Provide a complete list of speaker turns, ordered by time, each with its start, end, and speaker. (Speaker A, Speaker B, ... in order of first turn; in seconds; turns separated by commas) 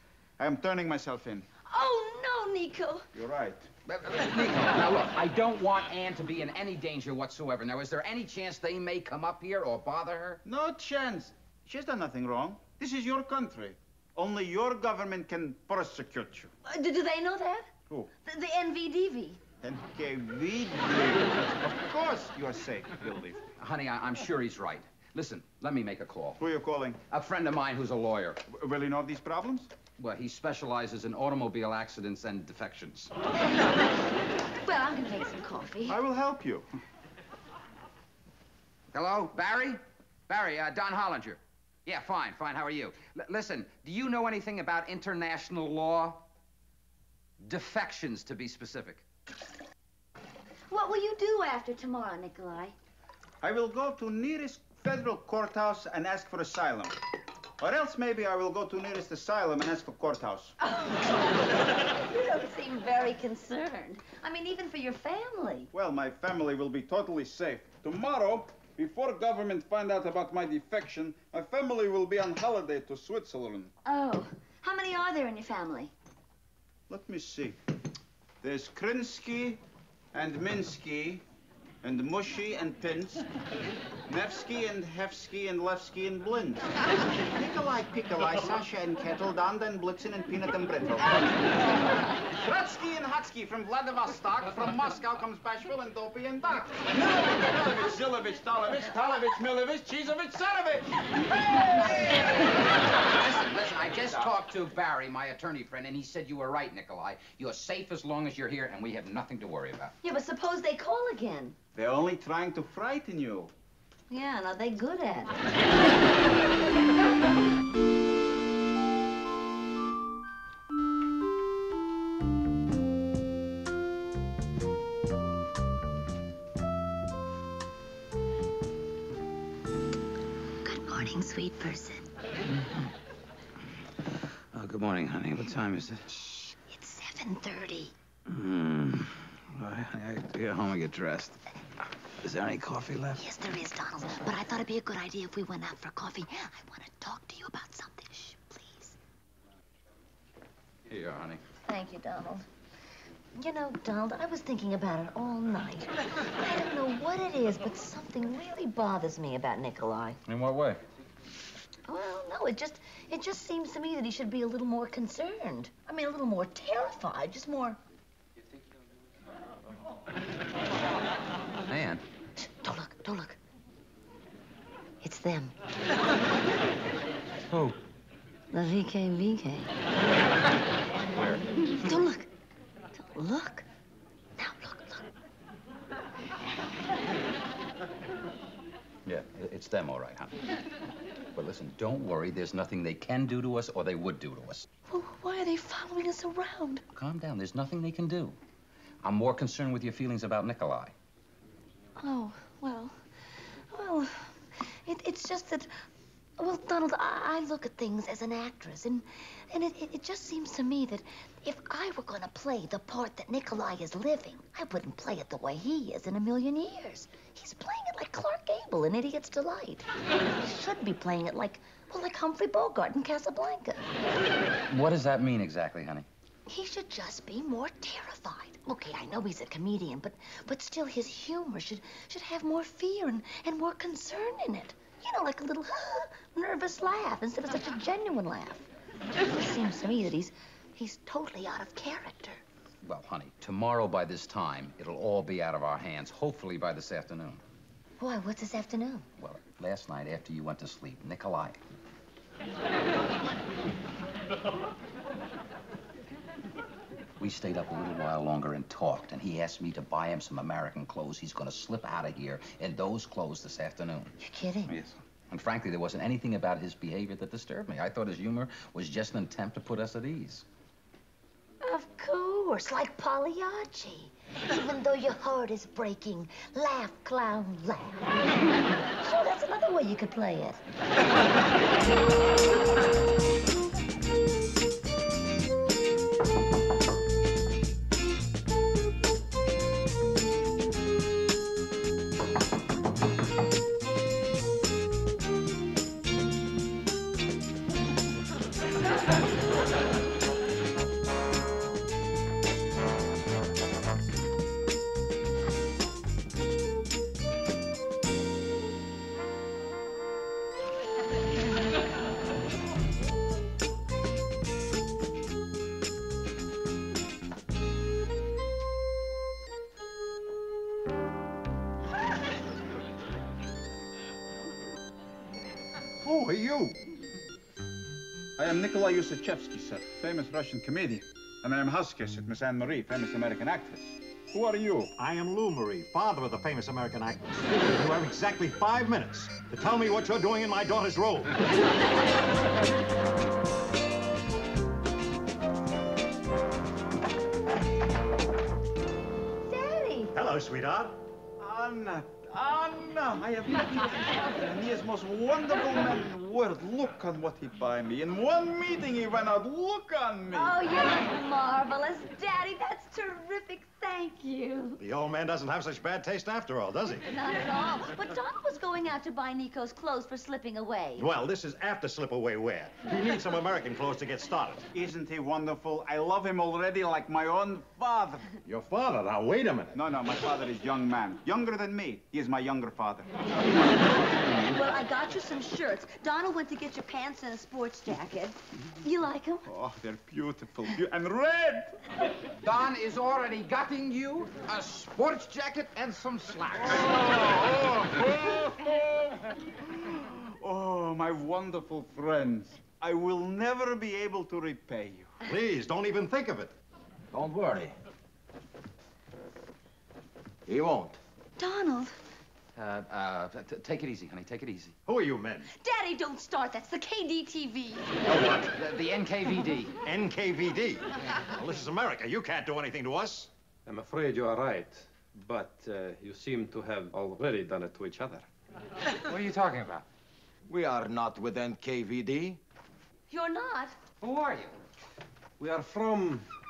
Speaker A: 0.4-1.5, Speaker B: 1.7-3.1, Speaker A: 3.1-3.7, Speaker C: 3.9-10.4, Speaker A: 10.4-16.5, Speaker B: 16.7-17.7, Speaker B: 18.2-19.4, Speaker A: 19.6-23.5, Speaker C: 23.6-26.4, Speaker A: 26.4-27.0, Speaker C: 27.1-28.4, Speaker A: 28.5-29.7, Speaker C: 30.0-33.1, Speaker B: 34.6-36.0, Speaker A: 35.9-36.7, Speaker C: 38.9-46.2, Speaker C: 47.4-49.0, Speaker B: 50.7-52.8, Speaker A: 53.4-57.0, Speaker A: 57.6-60.6, Speaker B: 60.6-65.7, Speaker A: 65.7-73.7, Speaker B: 73.8-75.9, Speaker A: 76.9-77.6, Speaker A: 78.4-79.6, Speaker A: 80.1-81.2, Speaker A: 81.8-83.3, Speaker A: 84.1-86.7, Speaker A: 87.2-91.6, Speaker A: 92.2-101.0, Speaker A: 101.5-102.4, Speaker C: 102.9-109.9, Speaker B: 110.0-111.6, Speaker A: 111.7-113.5, Speaker B: 114.1-115.5, Speaker B: 130.6-132.1, Speaker C: 132.5-132.9, Speaker C: 134.5-136.5, Speaker B: 136.7-137.9, Speaker C: 138.3-143.2, Speaker B: 143.2-149.0, Speaker C: 150.9-151.4, Speaker B: 151.7-152.5, Speaker B: 153.4-160.2, Speaker C: 160.3-160.8, Speaker B: 161.9-167.8, Speaker C: 171.7-172.0, Speaker B: 172.4-173.4, Speaker B: 175.0-175.5, Speaker C: 177.5-177.8, Speaker B: 178.5-179.7, Speaker C: 181.1-181.4, Speaker B: 181.8-182.3, Speaker B: 182.9-183.7, Speaker B: 184.4-185.1, Speaker C: 189.1-190.4, Speaker C: 191.3-194.7, Speaker B: 194.9-196.8, Speaker C: 196.9-198.4, Speaker C: 199.0-200.9, Speaker B: 202.0-203.0, Speaker B: 203.7-205.7, Speaker B: 206.4-219.9, Speaker B: 220.4-223.9, Speaker C: 224.7-226.1, Speaker B: 226.5-238.7, Speaker B: 239.2-242.4, Speaker C: 242.8-247.4, Speaker B: 248.0-249.1, Speaker C: 249.2-251.6, Speaker C: 257.2-270.4, Speaker B: 264.2-264.7, Speaker B: 271.6-278.0, Speaker B: 279.0-280.6, Speaker D: 326.0-326.8, Speaker A: 328.4-334.9, Speaker D: 335.0-341.4, Speaker B: 349.5-350.1, Speaker D: 350.1-351.0, Speaker A: 351.4-360.6, Speaker B: 360.3-364.8, Speaker D: 364.8-367.1, Speaker B: 367.1-371.1, Speaker D: 371.0-374.7, Speaker A: 374.7-378.3, Speaker D: 378.4-379.8, Speaker A: 379.7-383.1, Speaker B: 384.3-389.5, Speaker A: 389.5-391.8, Speaker C: 392.4-397.0, Speaker A: 396.6-405.2, Speaker D: 405.2-406.5, Speaker E: 407.1-407.7, Speaker E: 410.5-411.0, Speaker B: 411.4-412.0, Speaker C: 412.6-414.8, Speaker D: 414.9-415.5, Speaker B: 415.5-417.9, Speaker D: 418.1-418.6, Speaker C: 418.6-419.8, Speaker D: 419.8-423.3, Speaker F: 423.7-428.3, Speaker C: 429.1-429.9, Speaker E: 430.5-432.4, Speaker B: 433.1-433.8, Speaker C: 434.0-434.5, Speaker F: 435.4-436.2